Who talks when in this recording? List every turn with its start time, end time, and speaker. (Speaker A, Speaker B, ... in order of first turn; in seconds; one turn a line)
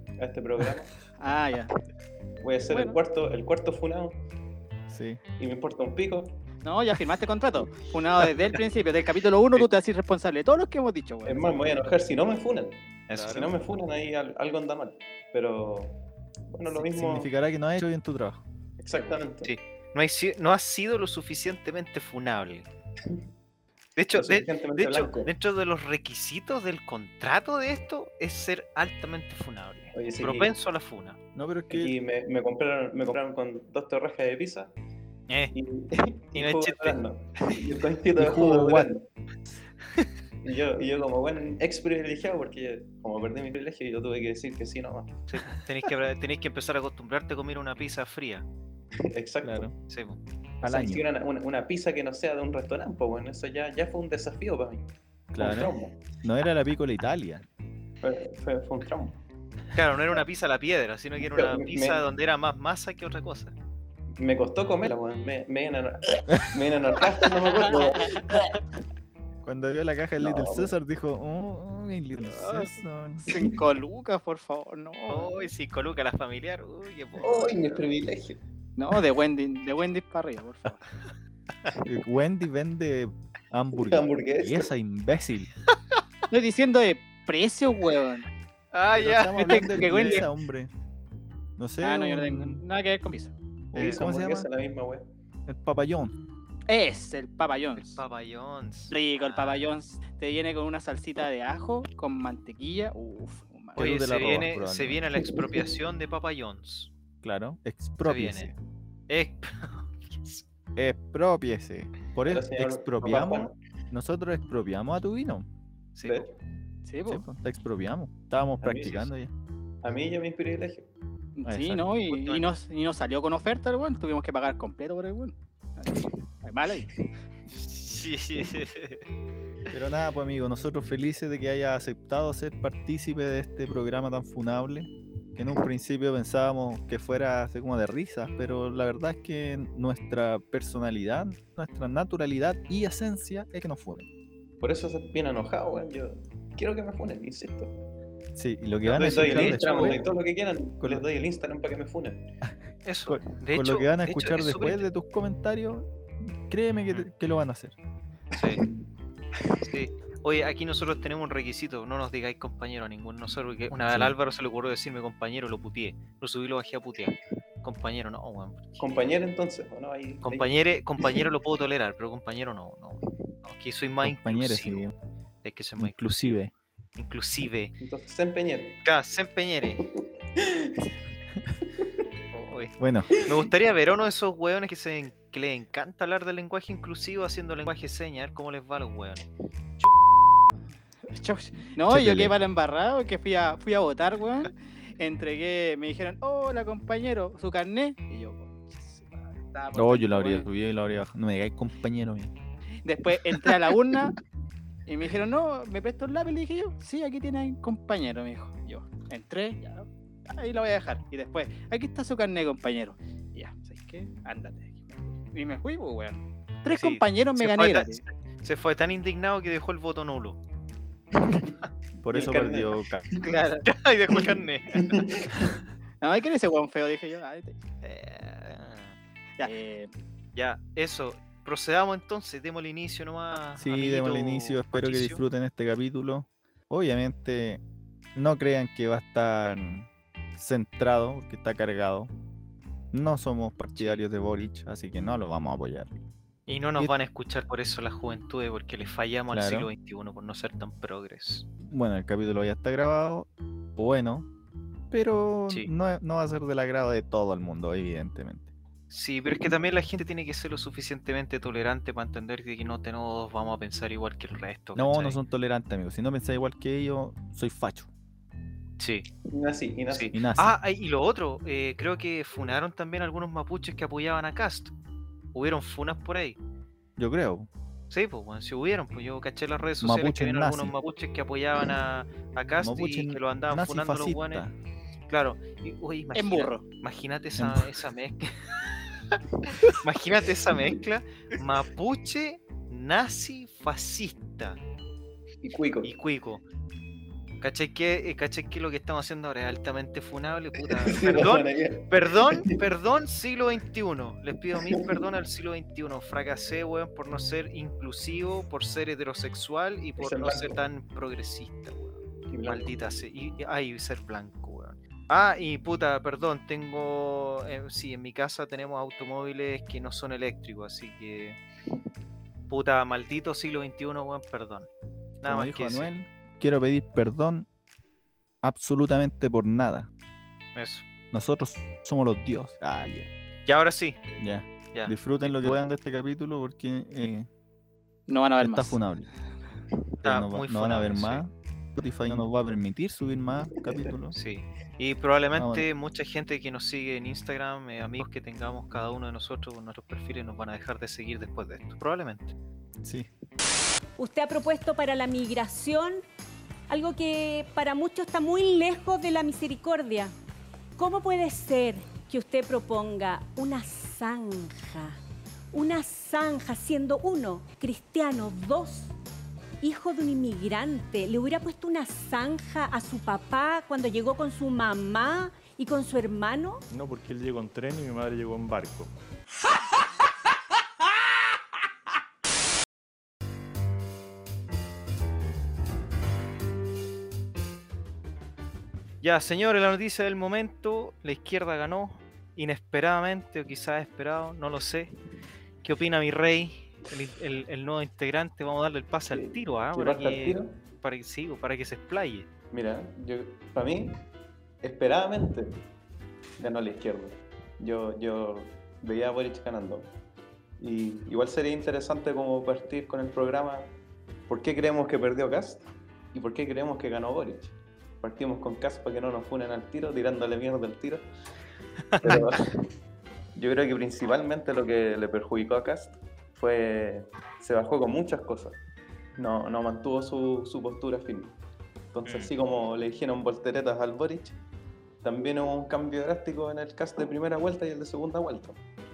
Speaker A: 0.2-0.9
Speaker B: 1.2-1.7
Speaker A: 2.4-4.2
Speaker B: 2.7-3.0
Speaker C: 4.9-5.2
Speaker A: 5.4-6.4
Speaker B: 6.6-11.9
Speaker A: 11.2-17.3
Speaker D: 13.1-13.8
Speaker C: 16.7-18.4
Speaker A: 18.8-19.5
Speaker D: 18.9-22.7
Speaker D: 24.0-31.2
Speaker A: 24.1-25.3
Speaker A: 29.9-30.5
Speaker C: 31.3-31.9
Speaker A: 31.7-34.7
Speaker D: 35.3-35.5
Speaker A: 35.5-39.0
Speaker D: 36.3-37.5
Speaker C: 38.1-38.9
Speaker A: 40.4-45.2
Speaker D: 45.3-48.4
Speaker A: 49.1-49.7
Speaker C: 49.4-49.7
Speaker D: 49.9-50.2
Speaker A: 50.6-56.0
Speaker C: 50.6-51.0
Speaker C: 55.3-57.4
Speaker A: 58.0-59.2
Speaker D: 59.7-63.5
Speaker A: 61.2-62.1
Speaker A: 64.2-68.5
Speaker C: 69.4-73.3
Speaker A: 70.2-70.7
Speaker B: 72.4-72.7
Speaker B: 73.3-75.5
Speaker D: 75.1-77.8
Speaker A: 77.2-78.4
Speaker B: 78.8-80.8
Speaker C: 81.8-85.5
Speaker A: 83.8-84.7
Speaker B: 86.3-88.3
Speaker D: 88.7-90.2
Speaker C: 88.9-90.7
Speaker B: 89.4-90.3
Speaker C: 91.6-92.6
Speaker B: 91.8-93.3
Speaker C: 93.7-94.5
Speaker A: 93.7-95.0
Speaker C: 95.5-96.2
Speaker B: 96.7-98.0
Speaker D: 97.8-99.6
Speaker B: 98.9-103.8
Speaker C: 103.7-105.0
Speaker D: 103.8-106.9
Speaker C: 107.2-108.5
Speaker D: 108.0-108.5
Speaker D: 109.1-110.4
Speaker C: 110.8-115.5
Speaker A: 112.3-113.5
Speaker D: 116.0-116.2
Speaker A: 116.0-116.3
Speaker B: 116.8-117.2
Speaker C: 117.1-119.3
Speaker A: 118.6-119.1
Speaker A: 119.8-120.9
Speaker B: 121.3-126.9
Speaker C: 121.5-121.9
Speaker D: 122.1-122.4
Speaker D: 127.6-129.0
Speaker C: 129.7-144.1
Speaker A: 144.6-147.7
Speaker C: 148.3-150.1
Speaker D: 148.8-150.0
Speaker A: 148.9-152.2
Speaker C: 150.8-151.1
Speaker D: 152.8-154.8
Speaker C: 153.1-155.8
Speaker C: 156.4-157.7
Speaker D: 158.3-158.6
Speaker D: 159.6-168.8
Speaker C: 163.9-164.1
Speaker A: 168.8-170.5
Speaker D: 170.2-174.9
Speaker C: 174.0-174.9
Speaker D: 175.4-176.4
Speaker C: 175.8-176.5
Speaker D: 176.9-177.7
Speaker A: 177.8-178.8
Speaker D: 178.8-179.8
Speaker A: 180.3-180.9
Speaker D: 182.3-189.2
Speaker C: 182.8-183.1
Speaker A: 183.2-183.4
Speaker B: 191.1-200.5
Speaker C: 191.9-192.3
Speaker C: 199.7-202.3
Speaker B: 202.8-204.1
Speaker B: 204.9-218.0
Speaker D: 216.7-220.4
Speaker A: 221.2-221.5
Speaker A: 222.0-222.7
Speaker C: 222.0-223.0
Speaker D: 223.2-224.9
Speaker A: 224.8-225.3
Speaker B: 226.0-228.4
Speaker D: 228.4-228.9
Speaker B: 229.4-229.9
Speaker D: 230.3-235.2
Speaker C: 233.6-237.6
Speaker C: 238.1-242.1
Speaker C: 242.9-245.9
Speaker D: 243.7-244.0
Speaker D: 246.5-251.5
Speaker C: 249.3-249.7
Speaker C: 251.7-254.3
Speaker C: 254.9-258.5
Speaker D: 258.9-265.2
Speaker C: 264.8-267.9
Speaker D: 268.8-269.1
Speaker A: 269.3-270.1
Speaker D: 269.9-274.7
Speaker C: 270.1-270.6
Speaker D: 275.3-276.4
Speaker C: 277.0-277.5
Speaker D: 277.9-284.4
Speaker C: 279.8-280.7
Speaker C: 282.6-284.5
Speaker D: 285.1-294.6
Speaker B: 286.1-286.6
Speaker C: 287.4-287.7
Speaker A: 295.4-295.9
Speaker D: 295.8-296.4
Speaker D: 297.4-321.4
Speaker A: 300.6-302.5
Speaker A: 304.6-305.0
Speaker A: 310.0-310.6
Speaker A: 312.3-312.6
Speaker D: 322.5-324.7
Speaker D: 325.2-325.9
Speaker C: 325.2-327.5
Speaker C: 328.4-329.9
Speaker D: 330.6-330.8
Speaker C: 331.1-333.1
Speaker D: 333.4-334.0
Speaker C: 334.2-337.3
Speaker D: 334.7-335.6
Speaker B: 338.1-338.8
Speaker C: 338.4-339.1
Speaker D: 340.0-341.2
Speaker C: 340.0-344.1
Speaker D: 344.1-352.4
Speaker C: 345.3-345.7
Speaker C: 352.8-353.1
Speaker E: 354.0-356.0
Speaker E: 356.7-360.1
Speaker E: 360.8-364.9
Speaker E: 365.5-368.9
Speaker E: 369.6-376.6
Speaker F: 376.7-378.9
Speaker D: 389.0-394.9
Speaker D: 395.6-402.3
Speaker A: 399.1-400.6
Speaker A: 402.5-404.0
Speaker A: 404.6-405.5
Speaker A: 406.4-409.9
Speaker A: 410.6-413.7
Speaker A: 414.3-421.0
Speaker D: 421.9-422.4
Speaker A: 422.0-422.6
Speaker A: 423.3-428.6
Speaker A: 429.2-431.4
Speaker A: 431.9-434.4
Speaker D: 432.0-432.3
Speaker A: 435.0-438.6